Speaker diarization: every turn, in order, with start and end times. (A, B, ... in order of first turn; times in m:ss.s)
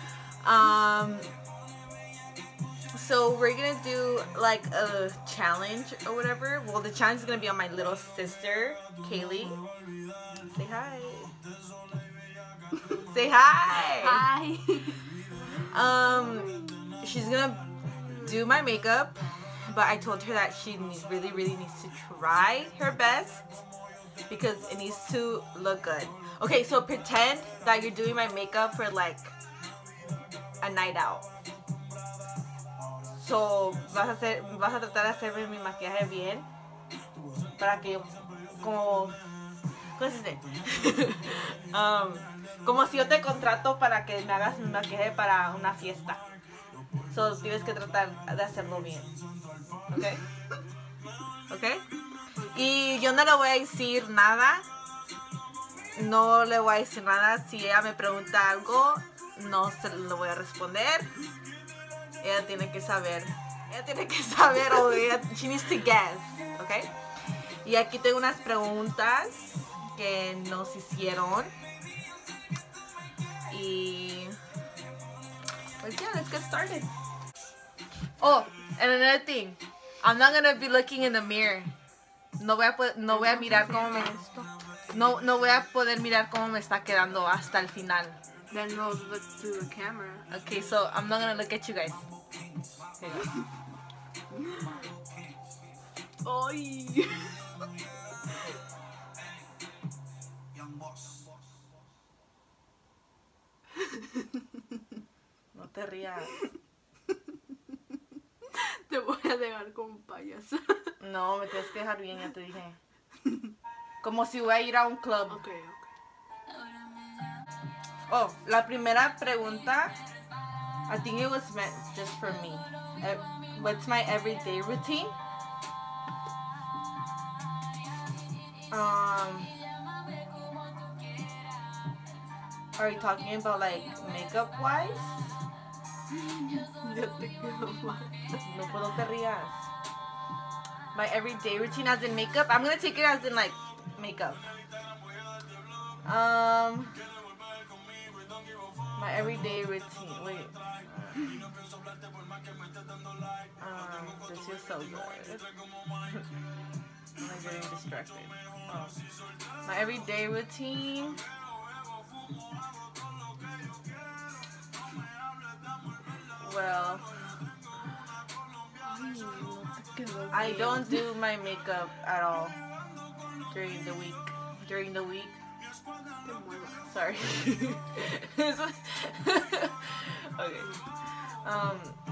0:00.4-0:01.3 A
0:02.9-0:09.6 A
0:10.5-0:11.3 A
0:13.1-0:14.2 A
0:14.0-0:15.0 B
0:15.6-0:23.6 A
0:24.3-0:29.3 A
0:30.6-0:31.2 A
0:33.1-0:36.4 A
0:37.6-0:39.2 A
0:40.0-0:46.2 A
0:47.1-0:49.1 A
0:49.9-0:50.2 A
0:51.5-0:51.8 A
0:52.5-0:54.6 A
0:56.0-1:01.1 A
1:02.2-1:06.9 A
1:07.6-1:11.5 A
1:13.5-1:14.4 A
1:15.8-1:16.9 A
1:18.2-1:21.7 A
1:22.4-1:24.1 A
1:23.1-1:24.5 B
1:24.9-1:28.2 A
1:28.5-1:30.2 B
1:30.3-1:32.0 A
1:33.0-1:33.3 A
1:36.2-1:37.4 B
1:45.5-1:46.4 A
1:48.5-1:50.9 B
1:51.0-1:52.8 A
1:54.0-1:55.4 A
1:55.3-1:55.8 B
1:58.1-2:00.0 A
2:00.9-2:05.1 A
2:08.7-2:09.5 A
2:12.8-2:15.1 A
2:16.1-2:18.4 B
2:18.4-2:19.6 A
2:20.9-2:24.5 A
2:26.0-2:27.0 A
2:29.0-2:31.4 A
2:33.6-2:35.4 A
2:37.2-2:38.9 A
2:39.6-2:41.2 A
2:46.4-2:47.0 A
2:48.8-2:51.0 B
2:50.3-2:52.6 A
2:53.5-2:55.4 A
2:56.2-2:56.9 B
2:56.9-3:00.7 A
3:01.4-3:02.0 A